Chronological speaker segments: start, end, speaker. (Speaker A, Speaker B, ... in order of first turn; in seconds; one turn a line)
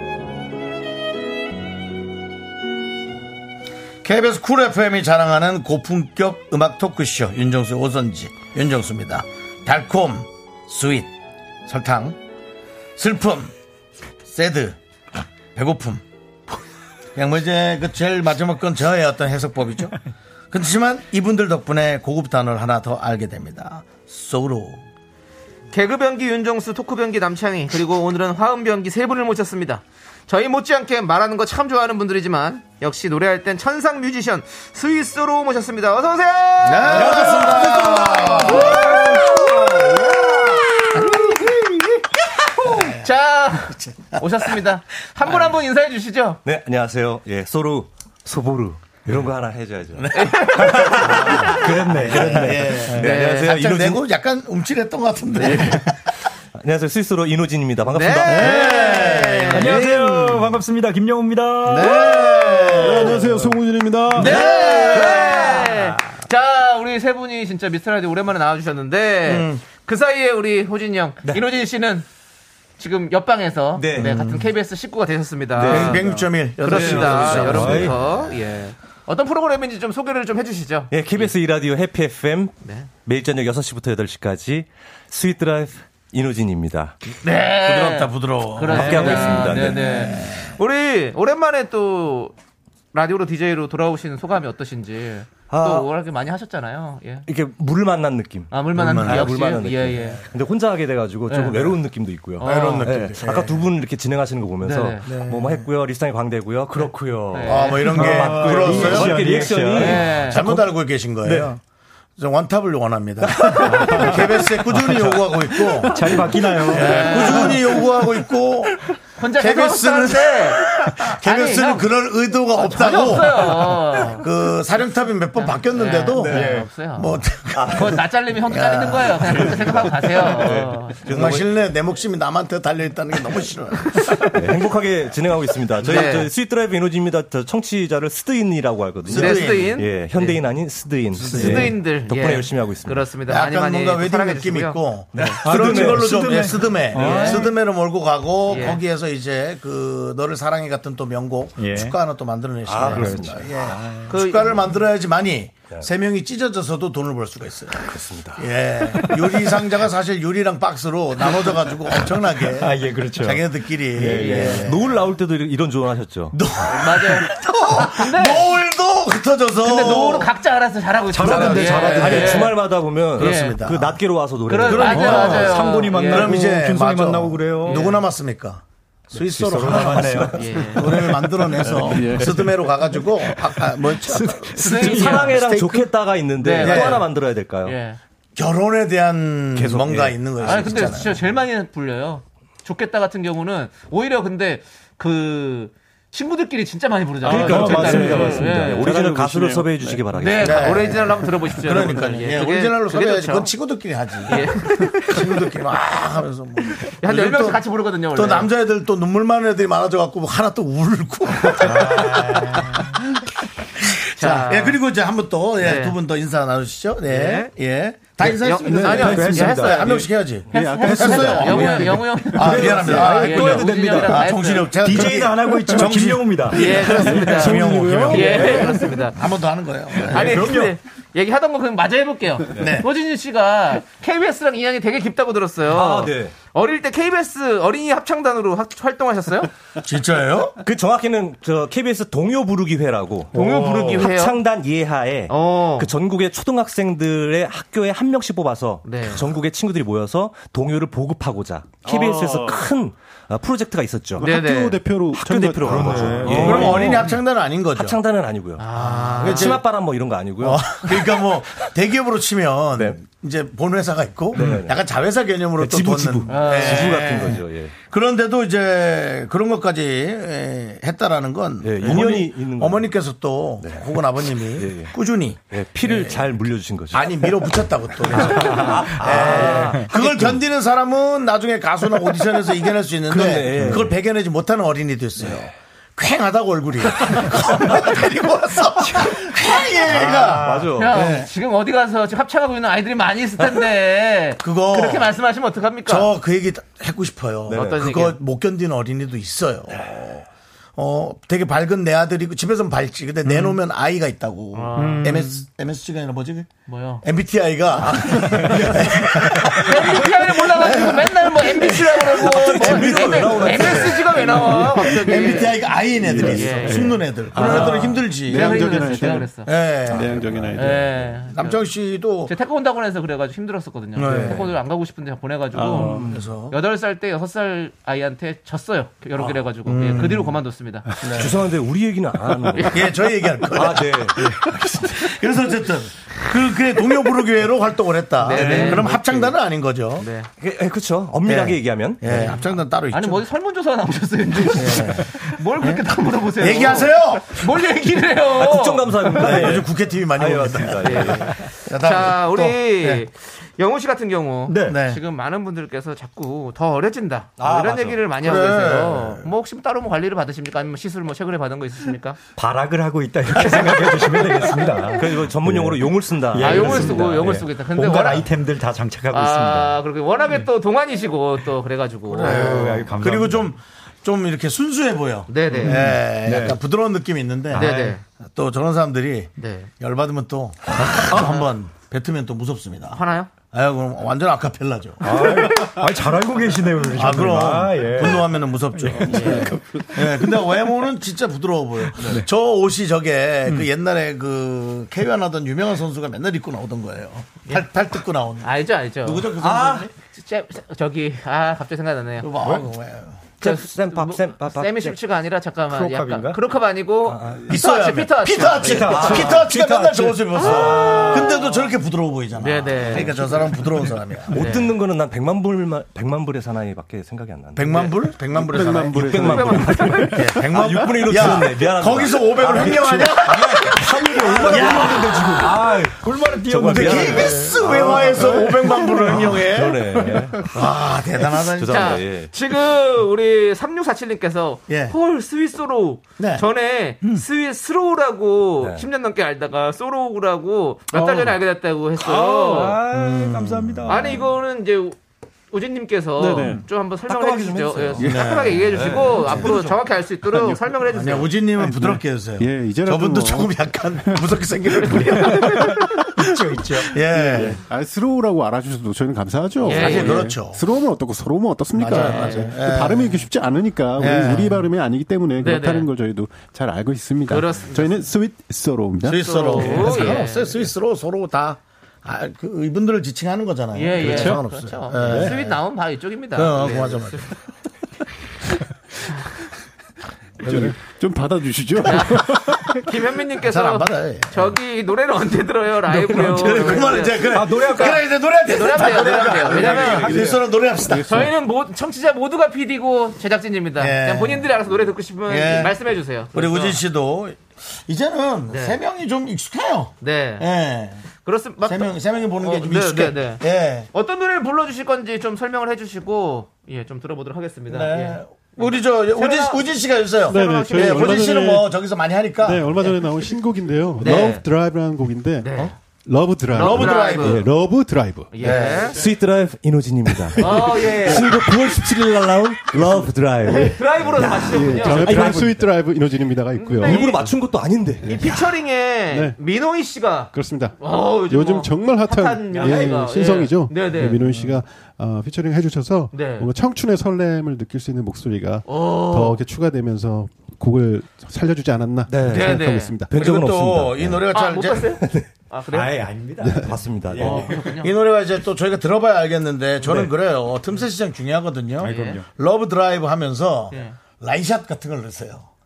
Speaker A: 4.0-11.1
Speaker A: 11.6-12.2
Speaker A: 12.9-13.5
Speaker A: 14.2-14.8
Speaker A: 15.5-16.0
Speaker A: 17.1-19.9
Speaker A: 20.5-24.8
Speaker B: 25.7-42.0
Speaker A: 36.6-41.6
Speaker C: 37.0-38.7
Speaker B: 42.5-46.4
Speaker A: 42.6-43.0
Speaker A: 43.7-44.5
Speaker C: 46.4-54.0
Speaker A: 49.9-55.9
Speaker B: 50.1-51.7
Speaker D: 51.5-52.5
Speaker B: 52.9-53.5
Speaker C: 56.6-58.6
Speaker B: 57.9-59.8
Speaker A: 58.3-60.6
Speaker D: 59.5-63.1
Speaker A: 61.6-63.4
Speaker E: 62.8-64.3
Speaker A: 64.2-65.8
Speaker B: 64.2-72.1
Speaker C: 65.2-65.5
Speaker A: 69.2-69.6
Speaker B: 72.8-76.0
Speaker A: 74.0-74.4
Speaker C: 75.6-78.0
Speaker A: 75.6-78.0
Speaker B: 76.6-81.3
Speaker C: 80.9-87.0
Speaker B: 82.6-82.9
Speaker B: 87.2-92.3
Speaker A: 87.6-90.5
Speaker C: 88.7-90.0
Speaker B: 92.9-97.3
Speaker C: 95.5-95.9
Speaker C: 97.3-110.3
Speaker B: 98.5-100.2
Speaker A: 98.8-99.3
Speaker B: 101.3-101.8
Speaker B: 102.4-102.9
Speaker A: 102.4-103.6
Speaker B: 104.6-105.1
Speaker A: 105.1-105.7
Speaker B: 107.3-108.1
Speaker A: 107.4-109.3
Speaker D: 108.0-110.0
Speaker B: 109.8-110.4
Speaker A: 110.2-111.6
Speaker A: 112.2-116.0
Speaker D: 113.8-114.1
Speaker D: 115.9-117.6
Speaker A: 116.6-118.8
Speaker B: 116.7-117.6
Speaker B: 119.2-121.9
Speaker A: 119.3-129.8
Speaker B: 122.5-124.2
Speaker B: 125.4-127.2
Speaker D: 126.3-126.7
Speaker C: 127.5-128.0
Speaker B: 127.7-131.0
Speaker C: 129.3-131.5
Speaker A: 131.0-134.3
Speaker C: 134.3-143.0
Speaker B: 135.8-136.3
Speaker A: 139.0-139.8
Speaker B: 139.1-140.4
Speaker A: 141.1-141.7
Speaker B: 141.2-144.8
Speaker A: 143.3-165.0
Speaker C: 145.2-146.4
Speaker D: 145.2-147.5
Speaker C: 146.9-147.4
Speaker B: 147.0-147.3
Speaker B: 148.5-148.8
Speaker D: 151.6-151.9
Speaker C: 152.7-153.5
Speaker D: 152.9-154.0
Speaker B: 154.1-154.7
Speaker C: 157.8-159.1
Speaker D: 162.6-163.4
Speaker D: 163.9-164.6
Speaker B: 164.1-164.7
Speaker C: 164.1-166.3
Speaker A: 166.3-170.3
Speaker B: 166.7-168.5
Speaker B: 169.6-172.6
Speaker D: 171.1-172.1
Speaker A: 171.2-172.5
Speaker C: 171.4-175.6
Speaker B: 173.2-173.6
Speaker A: 173.2-174.0
Speaker B: 174.4-176.3
Speaker A: 174.7-185.9
Speaker D: 175.0-177.9
Speaker B: 177.6-178.0
Speaker D: 179.2-180.7
Speaker B: 180.3-181.1
Speaker D: 181.9-182.2
Speaker E: 182.0-182.6
Speaker B: 184.5-185.4
Speaker C: 184.6-187.8
Speaker B: 186.4-187.1
Speaker A: 186.6-187.0
Speaker B: 187.6-188.0
Speaker A: 188.3-191.2
Speaker C: 189.6-191.1
Speaker B: 190.4-198.9
Speaker C: 197.2-200.9
Speaker E: 197.2-200.0
Speaker B: 200.1-203.5
Speaker A: 200.4-212.9
Speaker B: 204.3-205.3
Speaker B: 207.0-208.5
Speaker D: 211.6-212.7
Speaker A: 213.8-230.5
Speaker B: 214.2-214.8
Speaker B: 215.6-216.0
Speaker B: 217.1-217.5
Speaker B: 218.2-224.8
Speaker E: 218.7-219.6
Speaker D: 218.9-219.9
Speaker E: 220.5-222.6
Speaker D: 222.4-224.2
Speaker D: 224.8-228.7
Speaker B: 226.5-229.2
Speaker E: 227.3-228.6
Speaker B: 230.1-239.5
Speaker D: 230.1-230.8
Speaker A: 232.5-232.9
Speaker C: 235.7-236.3
Speaker A: 239.8-240.6
Speaker C: 240.6-254.3
Speaker B: 243.3-244.4
Speaker B: 245.3-245.9
Speaker B: 248.8-249.2
Speaker E: 251.9-252.4
Speaker E: 254.2-256.9
Speaker B: 254.2-254.8
Speaker C: 255.1-257.1
Speaker A: 255.8-258.0
Speaker B: 256.3-256.7
Speaker C: 257.7-261.1
Speaker B: 258.6-259.6
Speaker A: 259.2-259.6
Speaker A: 260.4-276.2
Speaker C: 264.3-264.8
Speaker C: 265.6-267.7
Speaker B: 266.3-267.2
Speaker C: 271.6-272.9
Speaker C: 273.6-274.0
Speaker C: 274.5-274.9
Speaker C: 275.5-277.5
Speaker A: 276.9-291.3
Speaker C: 278.1-280.4
Speaker B: 279.0-279.8
Speaker C: 283.1-283.9
Speaker C: 289.9-291.0
Speaker B: 290.7-296.1
Speaker A: 294.4-295.1
Speaker A: 295.9-306.5
Speaker C: 297.5-297.8
Speaker B: 297.5-298.2
Speaker B: 304.5-305.2
Speaker D: 304.8-305.1
Speaker B: 306.7-307.0
Speaker A: 307.0-313.3
Speaker B: 307.8-315.6
Speaker C: 312.1-314.4
Speaker E: 314.4-315.3
Speaker A: 314.7-320.5
Speaker E: 316.1-319.3
Speaker B: 316.2-319.5
Speaker E: 319.9-321.1
Speaker B: 320.5-321.6
Speaker A: 321.3-322.3
Speaker B: 322.2-330.9
Speaker A: 323.9-324.5
Speaker C: 325.8-326.1
Speaker A: 326.0-326.5
Speaker A: 329.2-330.4
Speaker A: 331.0-331.3
Speaker C: 331.0-335.1
Speaker B: 332.5-332.8
Speaker A: 332.7-340.1
Speaker B: 338.2-339.3
Speaker C: 338.4-338.8
Speaker B: 340.0-340.3
Speaker C: 340.4-342.3
Speaker A: 341.2-343.2
Speaker B: 342.1-349.5
Speaker A: 344.5-345.8
Speaker A: 346.4-347.4
Speaker C: 348.3-351.4
Speaker A: 349.2-353.0
Speaker B: 350.8-362.2
Speaker D: 354.5-354.8
Speaker A: 354.6-355.0
Speaker C: 357.4-358.1
Speaker A: 358.2-359.3
Speaker D: 362.4-369.8
Speaker B: 363.4-364.1
Speaker C: 364.9-367.4
Speaker B: 366.4-368.3
Speaker B: 369.1-372.8
Speaker A: 372.1-377.7
Speaker D: 372.1-373.5
Speaker B: 375.3-375.9
Speaker D: 375.6-376.6
Speaker B: 377.5-378.0
Speaker D: 377.5-378.0
Speaker A: 378.3-383.0
Speaker B: 379.4-379.7
Speaker D: 380.8-381.3
Speaker B: 381.1-381.4
Speaker B: 382.9-383.3
Speaker A: 383.5-385.7
Speaker D: 385.0-388.4
Speaker A: 386.9-398.5
Speaker B: 389.1-389.6
Speaker B: 398.4-402.3
Speaker A: 399.0-399.9
Speaker A: 402.2-403.2
Speaker C: 403.4-405.0
Speaker B: 403.4-409.4
Speaker D: 405.7-406.4
Speaker C: 407.1-407.4
Speaker A: 407.5-414.3
Speaker D: 408.5-411.4
Speaker C: 408.9-409.4
Speaker B: 410.3-411.5
Speaker B: 412.4-413.2
Speaker C: 414.3-418.1
Speaker B: 414.3-414.7
Speaker A: 417.5-419.3
Speaker E: 418.3-420.2
Speaker C: 418.9-423.0
Speaker B: 419.1-420.2
Speaker A: 420.0-425.7
Speaker D: 422.5-428.9
Speaker C: 424.4-424.8
Speaker C: 426.3-430.5
Speaker A: 426.5-429.8
Speaker A: 430.4-432.0
Speaker C: 431.5-432.3
Speaker B: 431.7-442.8
Speaker A: 434.7-434.9
Speaker A: 436.2-436.4
Speaker D: 442.0-444.3
Speaker A: 442.9-444.1
Speaker B: 443.9-445.0
Speaker B: 445.5-451.3
Speaker E: 446.2-446.6
Speaker C: 447.1-449.8
Speaker A: 448.0-449.3
Speaker A: 450.9-455.5
Speaker E: 451.6-454.2
Speaker B: 454.7-455.8
Speaker E: 454.9-456.0
Speaker D: 456.2-456.9
Speaker A: 456.8-457.6
Speaker E: 457.1-469.9
Speaker A: 459.6-460.6
Speaker B: 459.6-460.3
Speaker A: 461.7-463.2
Speaker B: 461.9-462.5
Speaker A: 464.0-464.6
Speaker B: 465.4-465.9
Speaker B: 467.3-468.0
Speaker A: 469.0-475.6
Speaker B: 469.1-470.6
Speaker B: 473.7-477.3
Speaker E: 474.0-474.4
Speaker E: 474.9-475.3
Speaker A: 476.3-477.3
Speaker E: 480.4-482.8
Speaker C: 480.5-480.8
Speaker B: 481.8-490.2
Speaker A: 483.4-484.5
Speaker A: 486.4-491.3
Speaker D: 487.2-488.0
Speaker D: 489.1-489.8
Speaker C: 489.5-490.2
Speaker B: 490.9-496.8
Speaker A: 493.8-494.5
Speaker A: 495.3-495.8
Speaker A: 496.3-501.0
Speaker B: 498.5-498.8
Speaker B: 500.0-500.5
Speaker B: 501.2-509.6
Speaker A: 501.6-503.9
Speaker A: 507.7-512.8
Speaker B: 510.2-511.3
Speaker E: 510.3-511.6
Speaker E: 512.4-515.5
Speaker B: 514.0-514.4
Speaker A: 514.0-514.3
Speaker B: 515.4-515.7
Speaker E: 516.0-518.4
Speaker B: 516.5-517.5
Speaker A: 516.5-517.5
Speaker B: 518.3-519.0
Speaker A: 518.4-518.9
Speaker C: 518.9-525.7
Speaker B: 520.4-521.3
Speaker B: 523.4-525.6
Speaker E: 524.2-527.0
Speaker B: 526.6-527.3
Speaker C: 526.8-528.3
Speaker B: 528.0-534.6
Speaker E: 529.1-529.4
Speaker E: 530.3-543.1
Speaker B: 536.1-536.5
Speaker B: 538.6-539.4
Speaker C: 542.1-542.5
Speaker B: 542.3-542.9
Speaker C: 543.1-544.3
Speaker A: 543.1-544.9
Speaker B: 544.3-546.0
Speaker C: 545.0-545.3
Speaker D: 545.7-547.6
Speaker C: 546.6-547.5
Speaker B: 547.2-547.9
Speaker A: 547.8-555.5
Speaker B: 551.8-552.2
Speaker D: 551.8-552.2
Speaker B: 553.7-554.0